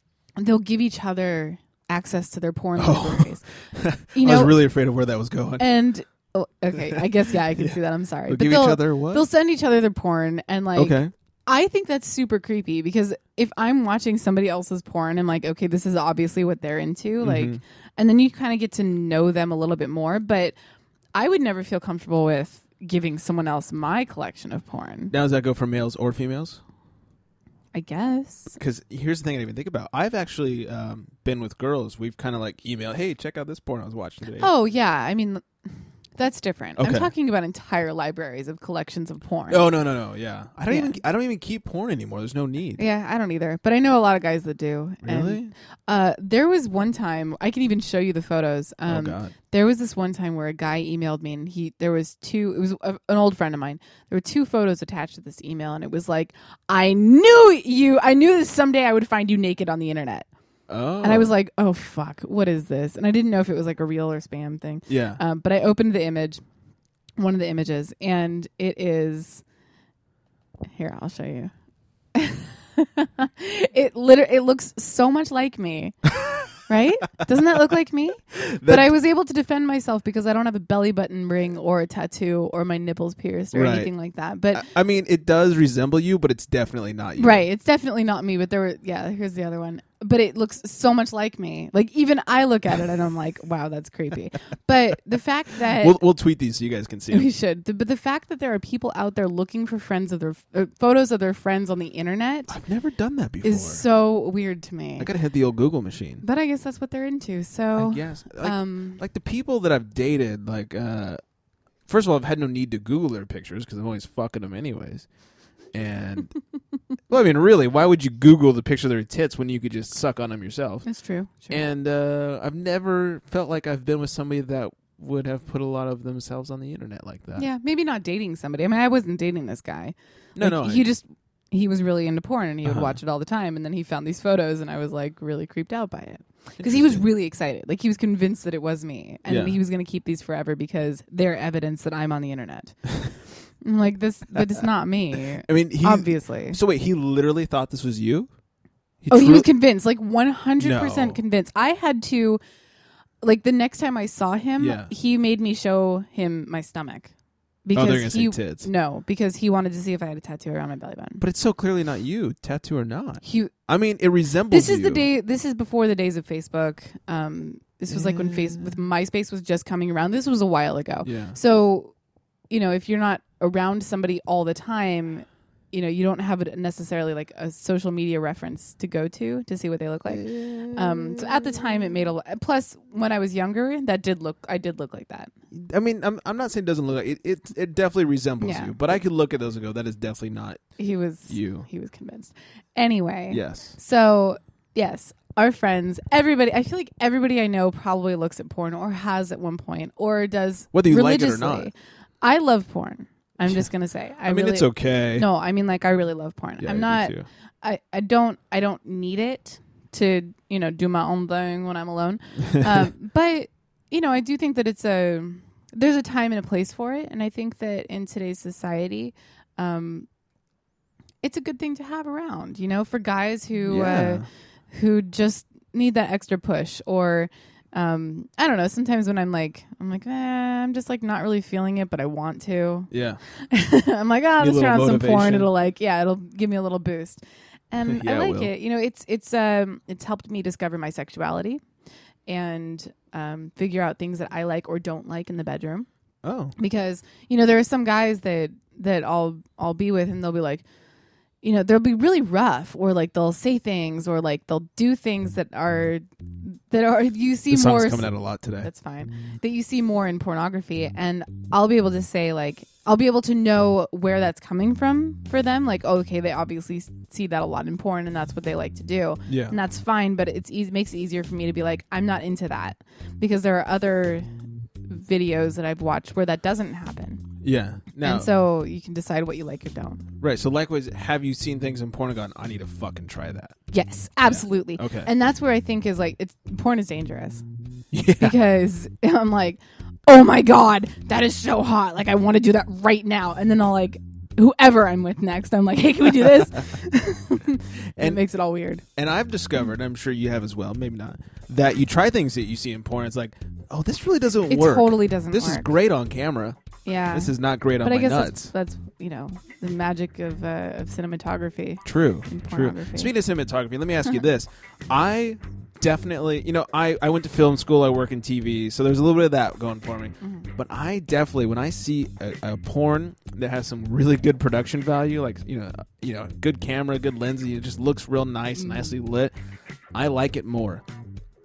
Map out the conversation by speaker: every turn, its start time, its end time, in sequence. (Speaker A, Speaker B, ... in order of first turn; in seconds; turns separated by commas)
Speaker A: 0.4-3.5, Speaker B: 2.8-5.7, Speaker A: 4.1-4.6, Speaker A: 5.6-20.6, Speaker B: 7.6-9.2, Speaker B: 10.8-11.1, Speaker B: 17.2-17.6, Speaker A: 21.1-25.1, Speaker B: 25.1-26.6, Speaker A: 27.7-28.6, Speaker B: 28.5-34.5, Speaker A: 34.4-35.4, Speaker A: 36.2-39.7, Speaker B: 36.8-37.1, Speaker B: 39.5-42.8, Speaker A: 40.7-41.0, Speaker A: 42.8-60.3, Speaker B: 45.0-45.5, Speaker B: 48.9-49.3, Speaker B: 60.7-61.3, Speaker A: 61.0-66.4, Speaker B: 64.9-65.2, Speaker A: 67.2-69.4, Speaker A: 70.7-71.5, Speaker A: 72.1-84.7, Speaker B: 78.3-78.9, Speaker B: 83.5-83.9, Speaker B: 84.5-87.4, Speaker A: 87.2-96.0, Speaker B: 95.8-97.3, Speaker A: 97.1-102.5, Speaker B: 102.5-103.8, Speaker A: 103.4-105.1, Speaker B: 105.0-106.2, Speaker A: 106.2-109.0, Speaker B: 107.8-111.2, Speaker B: 111.9-115.0, Speaker B: 115.7-116.3, Speaker B: 117.1-120.8, Speaker A: 120.8-121.7, Speaker B: 121.5-127.5, Speaker A: 127.4-142.8, Speaker B: 130.3-130.8, Speaker B: 132.6-133.0, Speaker B: 136.6-137.0, Speaker B: 139.3-139.6, Speaker A: 143.6-146.6, Speaker B: 144.3-144.6, Speaker B: 145.4-148.3, Speaker B: 149.0-149.5, Speaker A: 149.1-152.4, Speaker B: 150.6-151.2, Speaker A: 153.2-157.1, Speaker B: 154.6-154.9, Speaker A: 157.7-161.2, Speaker B: 157.7-158.7, Speaker B: 161.2-165.1, Speaker A: 163.2-163.6, Speaker A: 164.5-171.9, Speaker B: 167.9-168.7, Speaker B: 171.0-171.4, Speaker A: 172.5-185.3, Speaker B: 180.1-181.9, Speaker B: 185.5-190.6, Speaker A: 188.4-189.0, Speaker A: 190.8-220.1, Speaker B: 191.3-191.7, Speaker B: 193.3-193.7, Speaker B: 200.7-201.7, Speaker B: 204.2-205.2, Speaker B: 206.6-207.2, Speaker B: 212.4-212.7, Speaker A: 221.2-241.6, Speaker B: 223.7-224.2, Speaker B: 232.9-233.2, Speaker B: 234.4-235.5, Speaker B: 237.8-238.5, Speaker A: 242.3-245.9, Speaker B: 246.2-246.5, Speaker A: 246.6-250.6, Speaker A: 251.4-274.3, Speaker B: 257.5-258.7, Speaker B: 269.3-269.6, Speaker A: 274.9-277.3, Speaker B: 277.4-278.3, Speaker A: 278.0-280.1, Speaker B: 280.2-283.5, Speaker A: 283.7-287.4, Speaker B: 284.3-285.1, Speaker B: 287.9-288.3, Speaker A: 288.2-298.8, Speaker B: 298.9-306.6, Speaker A: 304.5-305.7, Speaker A: 306.9-313.1, Speaker B: 307.1-308.5, Speaker B: 311.8-329.3, Speaker A: 320.2-320.5, Speaker A: 328.6-328.9, Speaker B: 329.9-330.8